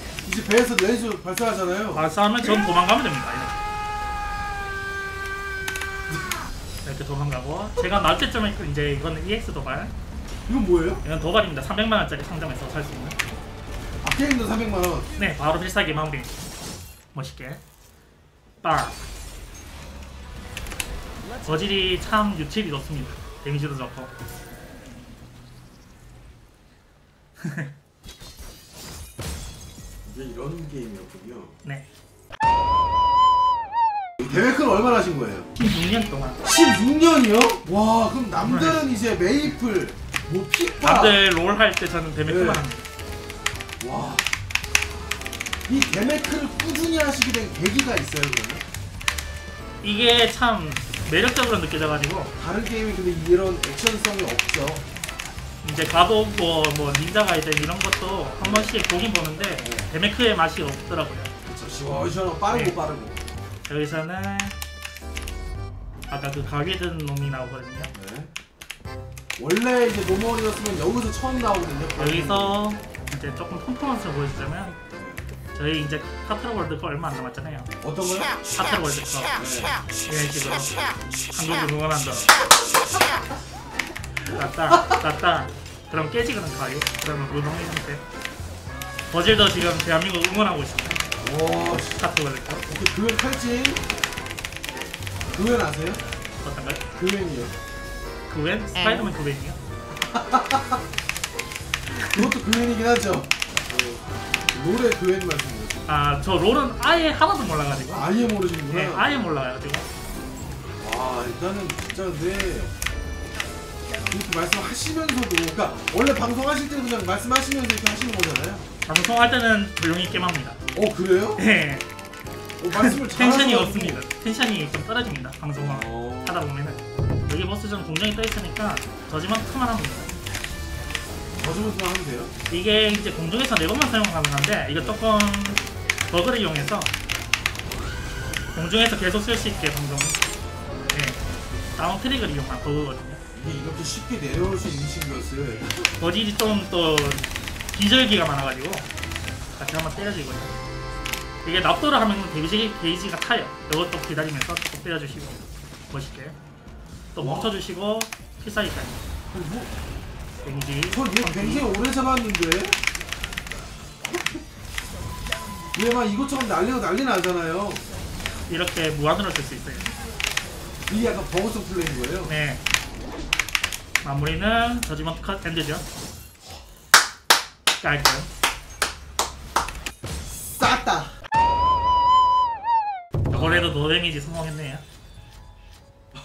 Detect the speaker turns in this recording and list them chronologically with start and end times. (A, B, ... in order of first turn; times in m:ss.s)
0:00.2-0:02.6 A
0:01.9-0:03.6 B
0:06.8-0:09.9 B
0:10.5-0:11.0 A
0:11.0-0:13.2 B
0:14.0-0:15.1 A
0:15.2-0:16.4 B
0:17.1-0:17.6 B
0:18.6-0:19.0 B
0:21.4-0:24.1 B
0:27.4-0:27.7 B
0:30.0-0:31.6 A
0:34.2-0:35.5 A
0:35.6-0:36.4 B
0:36.4-0:41.2 A
0:38.4-0:38.9 B
0:40.8-0:42.9 B
0:42.3-0:42.6 A
0:43.8-0:44.3 A
0:45.7-0:48.6 A
0:49.8-0:52.3 B
0:52.4-0:54.8 A
0:55.6-1:01.3 B
0:58.4-0:58.7 A
0:59.6-0:59.9 A
1:01.5-1:03.2 A
1:02.5-1:02.8 B
1:03.7-1:04.6 B
1:06.1-1:07.9 B
1:07.9-1:08.3 A
1:09.4-1:12.6 A
1:12.0-1:14.8 B
1:15.0-1:15.3 A
1:15.6-1:17.7 B
1:17.8-1:18.4 A
1:18.5-1:19.4 B
1:19.4-1:19.8 A
1:20.0-1:22.3 B
1:24.2-1:25.0 A
1:24.3-1:28.0 B
1:29.1-1:31.0 B
1:31.2-1:32.0 A
1:31.9-1:32.6 B
1:32.7-1:33.8 A
1:35.3-1:36.0 A
1:36.4-1:36.8 B
1:37.0-1:37.6 A
1:38.3-1:39.6 B
1:40.1-1:40.8 A
1:41.9-1:45.8 A
1:45.9-1:48.1 B
1:47.9-1:49.1 A
1:48.7-1:49.9 B
1:50.8-1:52.7 A
1:54.1-1:58.7 A
1:58.9-2:00.6 B
2:00.7-2:01.4 A
2:01.4-2:01.9 B
2:02.6-2:04.0 A
2:02.7-2:10.1 B
2:05.6-2:06.4 A
2:11.4-2:12.3 A
2:12.5-2:16.9 B
2:18.6-2:20.2 B
2:20.9-2:21.2 B
2:21.8-2:23.2 B
2:23.4-2:25.9 A
2:26.0-2:28.9 B
2:29.6-2:30.5 B
2:31.4-2:36.4 B
2:37.2-2:39.0 B
2:37.2-2:37.5 A
2:39.3-2:39.7 A
2:40.4-2:41.7 B
2:40.9-2:42.8 A
2:44.0-2:44.4 A
2:45.7-2:47.8 A
2:48.5-2:49.9 B
2:50.9-2:52.3 A
2:52.3-2:52.6 B
2:54.0-2:55.8 B
2:57.8-2:58.3 B
3:00.3-3:01.1 A
3:03.3-3:03.7 A
3:03.3-3:04.8 B